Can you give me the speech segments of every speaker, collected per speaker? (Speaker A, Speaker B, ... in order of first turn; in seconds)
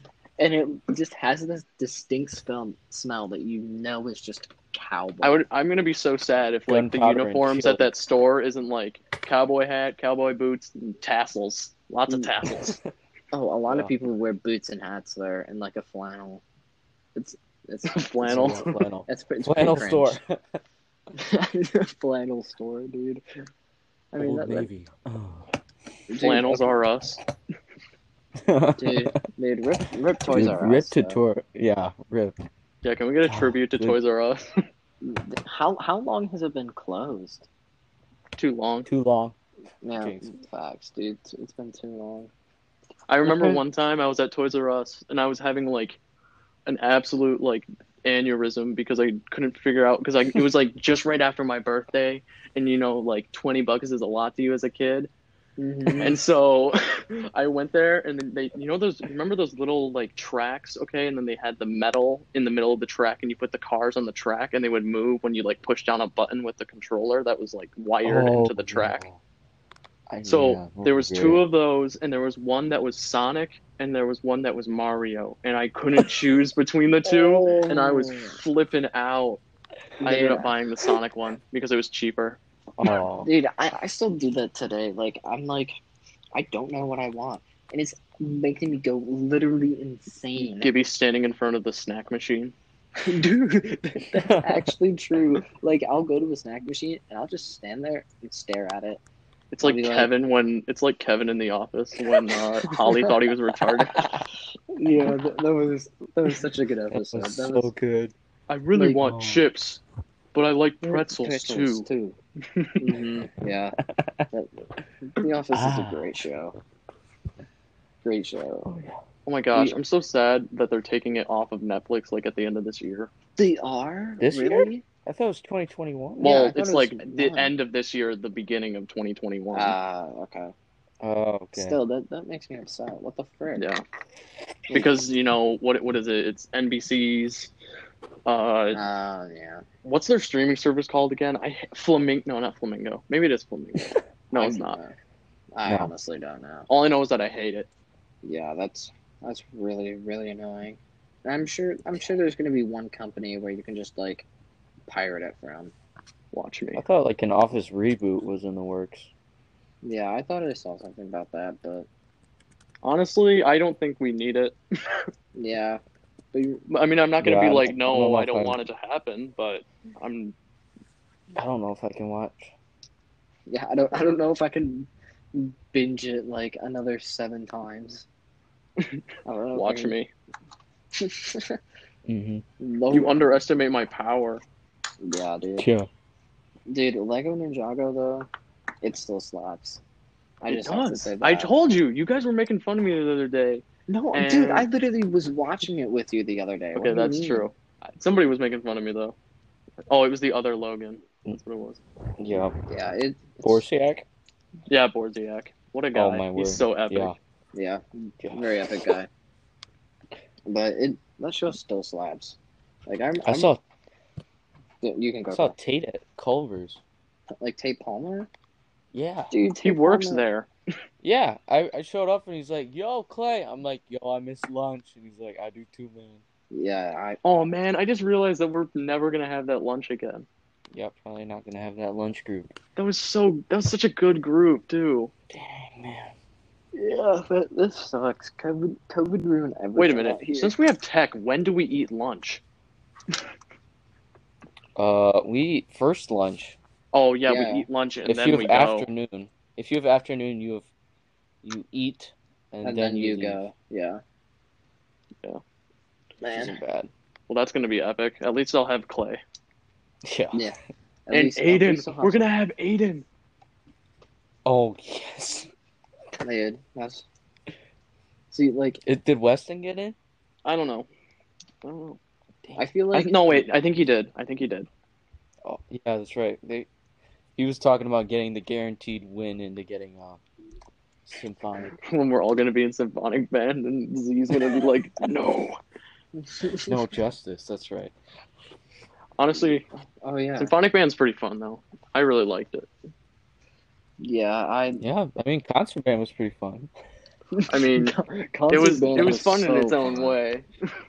Speaker A: 0.4-5.4, 13.3-16.4, 17.1-20.2, 21.1-23.2, 24.1-24.7, 26.1-26.8, 28.8-31.2, 35.0-37.5, 39.8-42.3, 55.6-56.2, 77.0-78.4, 80.0-80.5, 83.2-85.8, 86.3-90.7, 93.0-99.0, 99.6-100.1, 102.7-103.1, 104.7-107.7, 108.8-109.0, 110.8-112.2, 112.8-113.8, 114.3-116.5, 118.0-118.7, 123.4-124.8, 126.2-127.5, 129.5-130.5, 131.5-133.7, 138.7-139.6, 144.3-144.9, 145.5-146.7, 148.2-154.3, 154.9-155.7, 159.8-161.9, 165.3-165.8, 166.3-166.6, 173.5-178.1, 179.2-179.9, 180.9-181.6, 182.6-183.4, 185.0-185.7, 186.7-188.3, 188.8-189.8, 190.4-191.6, 193.9-197.5, 202.7-203.6, 207.5-209.1, 210.5-213.5, 214.8-215.6, 217.4-218.3, 219.3-220.2, 226.5-227.2, 236.7-240.5, 247.3-247.7, 252.6-254.0, 256.2-256.6, 260.3-262.2, 266.2-267.1, 268.3-268.8, 272.6-273.5, 286.1-286.8, 290.0-290.5, 294.0-294.8, 297.3-300.2
Speaker B: 5.2-12.8, 17.9-18.8, 26.2-27.2, 32.8-34.7, 38.4-38.9, 43.1-46.0, 46.6-55.1, 56.0-69.0, 70.2-79.4, 80.0-82.4, 90.6-92.5, 99.5-104.1, 108.5-109.8, 110.3-111.9, 112.4-112.8, 119.2-123.1, 126.2-129.7, 133.6-133.8, 134.7-137.5, 138.2-138.8, 139.8-144.8, 146.7-147.7, 156.3-156.8, 162.8-165.1, 166.7-170.3, 179.5-180.1, 182.9-184.4, 190.5-194.7, 196.8-199.2, 199.9-201.8, 204.7-207.1, 219.6-220.5, 227.2-230.2, 232.8-235.1, 239.8-242.4, 246.9-248.9, 257.3-259.2, 261.1-263.0, 270.4-270.9, 271.6-272.0, 272.9-274.7, 281.8-285.6, 289.2-289.6, 290.4-292.7, 297.5-297.9, 298.5-300.5
Speaker C: 6.7-7.9, 12.4-12.8, 18.2-20.6, 24.2-25.5, 28.4-29.2, 30.3-32.4, 33.2-34.0, 38.9-39.3, 40.0-40.3, 68.0-69.2, 70.1-71.4, 82.8-83.3, 94.1-94.7, 106.9-108.1, 109.0-109.5, 113.9-114.3, 115.5-116.2, 118.6-119.0, 124.2-126.3, 131.0-131.8, 145.7-145.9, 156.8-159.1, 167.2-168.6, 171.3-172.5, 182.1-182.4, 185.6-185.9, 202.2-202.6, 203.4-204.1, 205.9-207.2, 208.2-208.5, 213.2-213.6, 215.3-216.8, 218.9-219.3, 221.0-226.2, 230.7-232.6, 235.3-236.1, 244.8-246.6, 248.0-250.7, 251.4-253.4, 256.4-256.9, 260.0-260.5, 264.4-265.5, 268.9-269.9, 275.4-276.7, 277.4-280.2, 281.1-281.7, 286.6-287.9, 294.8-296.7